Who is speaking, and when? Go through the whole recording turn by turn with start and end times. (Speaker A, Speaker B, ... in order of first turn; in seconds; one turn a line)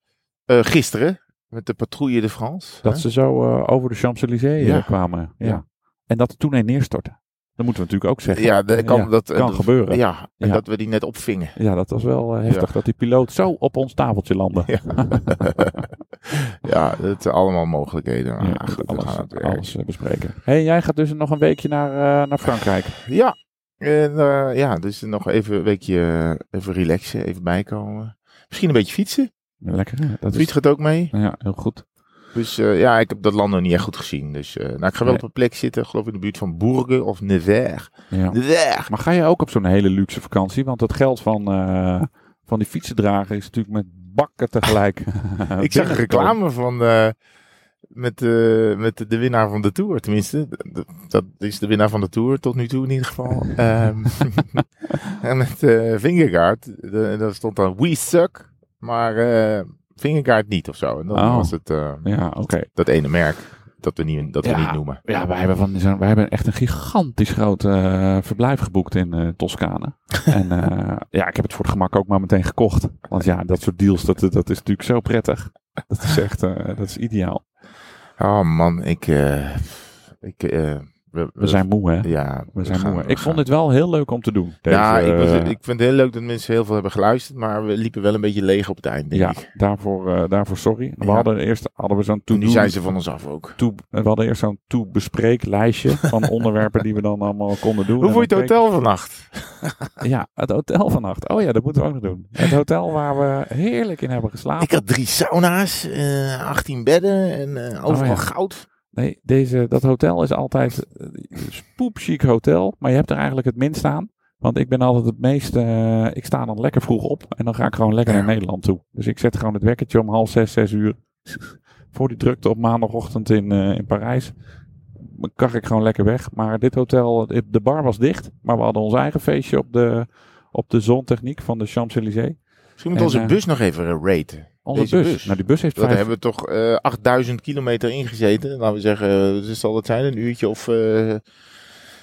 Speaker A: 0.5-3.0
Speaker B: 2.8-10.6
Speaker A: 4.6-5.6
Speaker A: 8.3-11.6
Speaker B: 11.6-15.6
Speaker A: 14.7-19.7
Speaker B: 18.4-23.0
Speaker A: 23.0-29.3
Speaker B: 29.6-30.5
Speaker A: 30.3-31.1
Speaker B: 31.1-31.9
Speaker A: 32.4-38.9
Speaker B: 38.1-46.4
Speaker A: 45.6-47.1
Speaker A: 47.9-62.1
Speaker B: 53.3-53.6
Speaker B: 61.1-62.7
Speaker A: 62.7-65.0
Speaker B: 64.4-77.5
Speaker A: 78.2-83.4
Speaker B: 81.4-85.5
Speaker A: 84.7-89.5
Speaker B: 89.1-92.9
Speaker A: 91.0-91.3
Speaker A: 92.3-93.6
Speaker B: 93.6-98.5
Speaker A: 98.0-100.0
Speaker B: 100.0-104.8
Speaker A: 104.6-108.7
Speaker B: 107.9-108.3
Speaker B: 108.9-124.3
Speaker B: 125.0-133.4
Speaker A: 132.8-141.2
Speaker B: 134.7-136.1